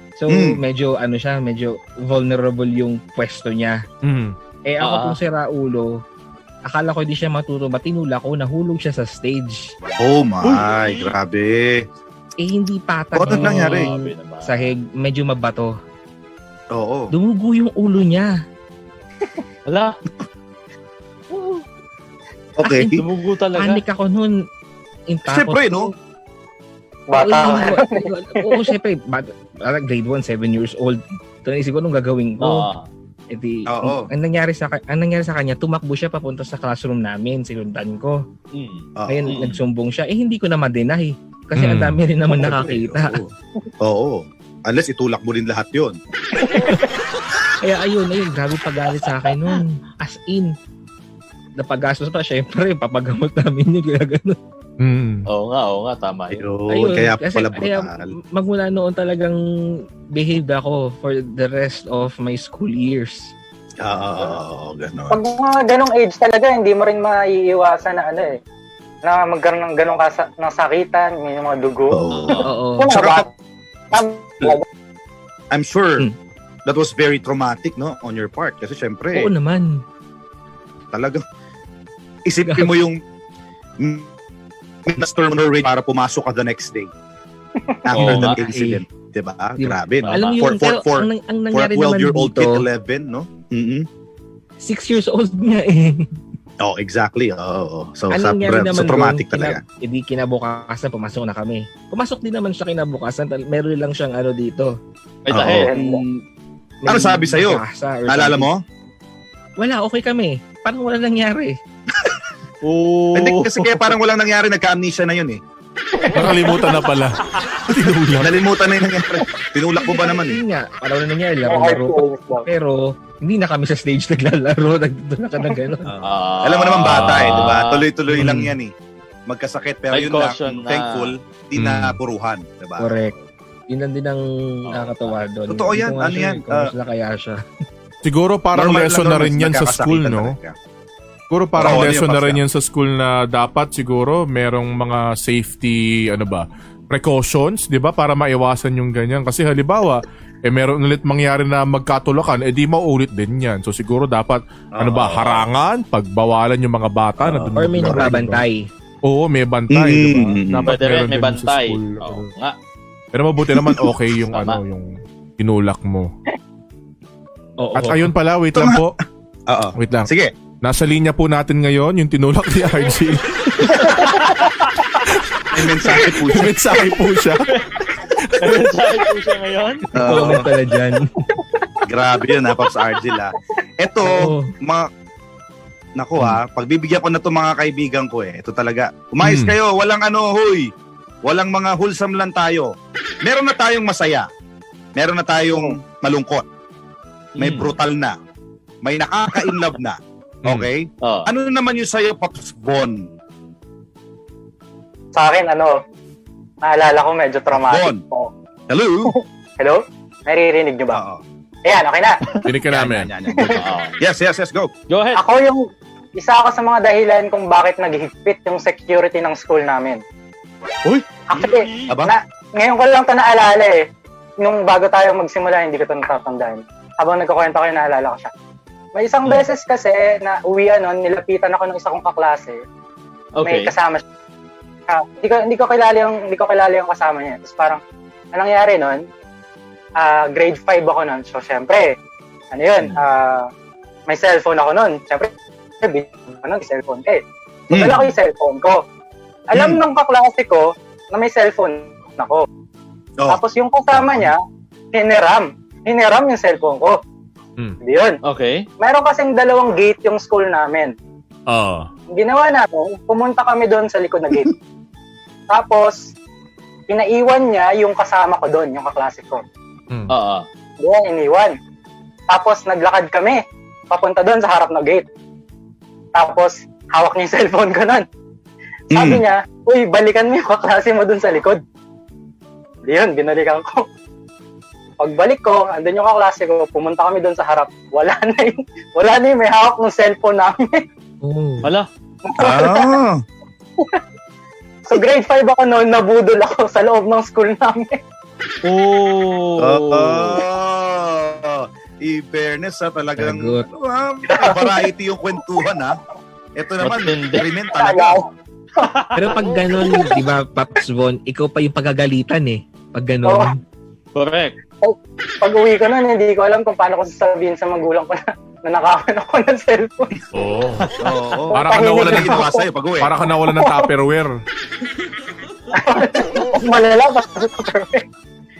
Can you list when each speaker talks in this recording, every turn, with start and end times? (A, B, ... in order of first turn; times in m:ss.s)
0:00.2-0:03.8 A
0:00.3-0:00.6 B
0:04.0-0:04.3 C
0:04.7-0:06.0 A
0:04.8-0:05.2 D
0:06.6-0:09.7 A
0:10.0-0:11.8 B
0:10.4-0:11.1 D
0:12.4-0:15.8 A
0:13.1-0:13.9 B
0:13.3-0:14.7 D
0:16.7-0:17.1 B
0:17.1-0:18.4 A
0:19.7-0:20.0 D
0:22.6-0:23.0 B
0:22.6-0:22.9 A
0:22.9-0:23.8 D
0:23.6-0:24.4 A
0:25.1-0:25.9 A
0:25.2-0:25.9 B
0:27.1-0:28.7 E
0:27.2-0:32.7 A
0:32.4-0:32.8 D
0:33.3-0:38.2 A
0:33.7-0:34.1 B
0:38.5-0:39.5 D
0:39.0-0:39.5 B
0:39.1-0:43.2 A
0:41.6-0:42.0 C
0:42.3-0:46.0 B
0:47.6-0:50.5 A
0:51.6-0:54.4 A
0:54.8-0:55.3 C
0:55.3-0:56.4 D
0:56.3-0:58.1 B
0:56.7-1:03.3 A
1:03.8-1:05.2 B
1:05.1-1:08.4 E
1:09.0-1:13.3 E
1:11.9-1:13.3 B
1:12.4-1:12.9 A
1:13.9-1:14.6 E
1:15.5-1:16.1 B
1:16.6-1:19.3 B
1:19.1-1:19.8 A
1:20.9-1:21.2 B
1:22.2-1:23.0 B
1:22.5-1:22.7 A
1:23.8-1:24.1 B
1:24.8-1:26.9 B
1:27.8-1:33.9 B
1:27.9-1:28.4 D
1:28.0-1:28.8 A
1:29.6-1:32.6 A
1:30.0-1:30.4 D
1:34.6-1:36.1 A
1:36.6-1:39.6 B
1:38.1-1:44.8 A
1:45.2-1:45.7 D
1:45.3-1:45.7 B
1:45.5-1:46.0 E
1:45.7-1:46.2 A
1:46.8-1:48.5 A
1:46.8-1:48.6 B
1:49.6-1:51.6 A
1:52.6-1:53.9 D
1:53.1-1:55.4 B
1:56.0-1:56.8 E
1:56.1-1:58.3 C
1:58.2-2:00.4 B
1:59.8-2:05.9 A
2:01.5-2:02.4 E
2:05.8-2:08.7 B
2:06.0-2:07.8 D
2:07.1-2:07.5 C
2:08.2-2:08.5 A
2:08.2-2:08.5 C
2:09.3-2:13.2 B
2:09.9-2:11.1 D
2:11.6-2:12.0 C
2:12.8-2:13.1 A
2:13.7-2:17.4 A
2:14.7-2:15.1 D
2:15.5-2:16.7 B
2:18.0-2:20.4 C
2:18.5-2:20.6 B
2:21.3-2:38.4 C
2:21.6-2:22.4 B
2:34.7-2:35.4 B
2:37.2-2:38.1 B
2:37.6-2:38.7 A
2:39.0-2:42.3 C
2:39.7-2:40.7 B
2:40.6-2:42.6 D
2:43.1-2:46.1 C
2:43.6-2:43.9 B
2:44.3-2:44.6 D
2:47.6-2:48.1 A
2:47.8-2:49.0 C
2:48.5-2:48.8 B
2:49.5-2:50.3 B
2:49.8-2:50.1 C
2:50.6-2:54.0 C
2:54.2-2:54.5 D
2:55.1-2:58.4 C
2:55.5-2:56.6 B
2:58.4-2:59.9 D
2:59.9-3:01.3 A
2:59.9-3:00.5 B
3:01.8-3:04.9 B
3:04.0-3:04.5 A
3:06.0-3:10.7 B
3:09.2-3:09.5 C
3:11.2-3:12.7 B
3:13.2-3:14.3 B
3:15.0-3:16.4 B
3:17.4-3:17.7 D
3:17.4-3:18.2 B
3:18.8-3:23.1 B
3:21.0-3:21.3 D
3:25.1-3:25.8 E
3:26.6-3:28.3 E
3:27.5-3:28.0 B
3:28.7-3:29.1 B
3:29.1-3:31.0 E
3:30.9-3:31.2 B
3:31.6-3:32.5 E
3:32.4-3:33.1 C
3:32.7-3:34.7 B
3:33.3-3:33.6 E
3:33.6-3:33.9 D
3:34.9-3:35.2 D
3:35.1-3:35.6 E
3:36.1-3:40.0 E
3:41.3-3:43.9 E
3:41.9-3:42.1 B
3:44.4-3:48.3 E
3:48.9-3:52.6 E
3:53.3-3:53.7 D
3:53.4-3:54.0 E
3:54.9-3:57.8 E
3:58.3-3:59.0 E
4:00.0-4:01.9 E
4:02.5-4:03.5 E
4:04.1-4:08.8 E
4:07.7-4:08.0 B
4:09.5-4:12.4 E
4:09.5-4:09.8 B
4:13.3-4:14.4 E
4:13.9-4:14.3 B
4:14.9-4:17.0 E
4:17.8-4:18.2 E
4:18.2-4:18.6 D
4:18.8-4:20.9 E
4:21.5-4:21.9 C
4:22.1-4:24.5 E
4:25.5-4:26.1 E
4:26.9-4:29.4 E
4:30.1-4:30.4 D
4:30.8-4:31.6 E
4:32.3-4:35.0 E
4:36.1-4:38.0 E
4:38.9-4:41.6 E
4:38.9-4:39.2 B
4:42.8-4:43.8 E
4:45.0-4:50.8 E
4:51.2-4:51.7 A
4:52.2-4:53.0 E
4:52.4-4:53.2 B
4:54.9-4:58.0 E
4:58.6-5:00.4 D
4:59.6-5:06.0 B
5:03.2-5:03.6 A
5:04.3-5:04.9 E
5:06.6-5:08.2 B
5:06.8-5:07.5 D
5:07.7-5:08.3 E
5:08.8-5:09.3 D
5:09.1-5:13.6 A
5:09.8-5:10.1 E
5:13.2-5:13.5 E
5:14.1-5:14.6 D
5:14.8-5:20.2 E
5:20.3-5:20.9 C
5:21.0-5:23.1 B
5:21.5-5:22.6 E
5:21.5-5:22.5 C
5:23.0-5:24.4 C
5:23.4-5:23.9 E
5:25.7-5:28.0 E